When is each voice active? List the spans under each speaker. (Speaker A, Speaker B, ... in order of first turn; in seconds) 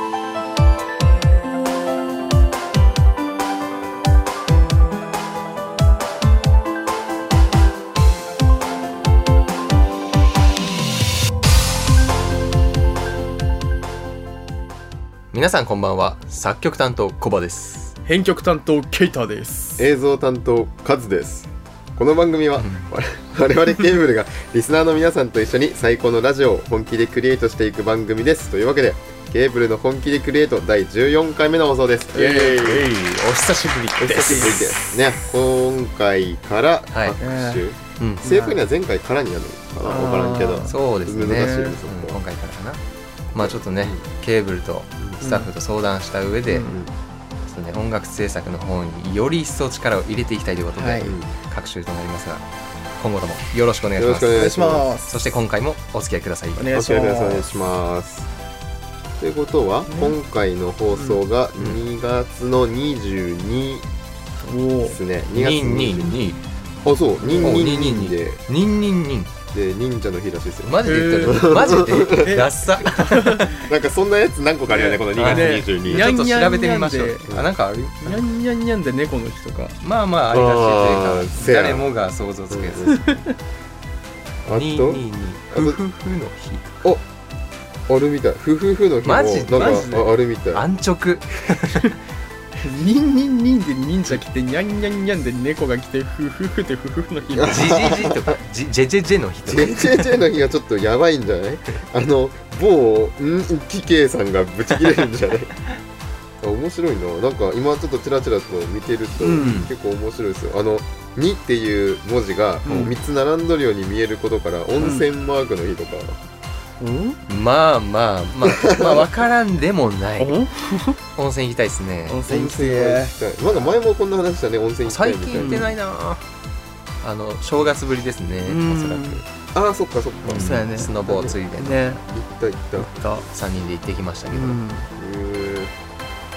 Speaker A: 15.3-18.0, 22.6-22.9, 32.4-35.0, 38.0-38.2, 40.7-42.8, 43.3-46.7, 47.4-52.5, 53.0-54.4, 55.1-56.7, 65.3-66.4, 67.4-69.3, 70.6-73.5, 75.1-78.1, 79.8-83.0, 84.5-86.8, 89.0-91.9, 97.4-100.1, 109.4-109.7, 117.3-120.4, 121.1-122.2, 124.8-126.2, 127.0-129.2, 130.3-131.8, 133.3-134.6
Speaker B: 18.1-19.9, 32.2-32.6, 37.2-37.6, 38.2-38.6, 39.9-40.8, 41.3-41.8, 45.2-45.5, 46.5-46.8, 50.7-51.1, 54.3-55.3, 56.6-57.5, 59.9-60.2, 61.0-61.2, 64.5-65.0, 67.2-67.6, 70.8-73.6, 74.7-77.3, 78.0-79.8, 82.9-83.2, 92.6-97.8, 109.2-109.6, 112.6-113.0, 114.8-115.0, 116.8-117.2, 120.2-121.0, 122.1-123.1, 125.4-125.7, 128.4-129.2, 130.2-132.0, 132.8-133.2, 134.3-134.9
Speaker C: 19.8-32.9, 34.0-42.2, 43.4-44.0, 45.0-45.2, 51.0-51.3, 54.0-55.0, 56.7-58.3, 59.2-63.9, 64.8-66.2, 66.8-68.4, 69.5-72.4, 73.4-76.1, 80.3-81.9, 82.5-83.0, 84.5-85.8, 87.9-90.6, 97.3-98.4, 99.5-105.5, 106.4-116.2, 118.5-119.1, 122.3-125.7, 129.5-131.3, 132.0-132.9, 134.9-135.7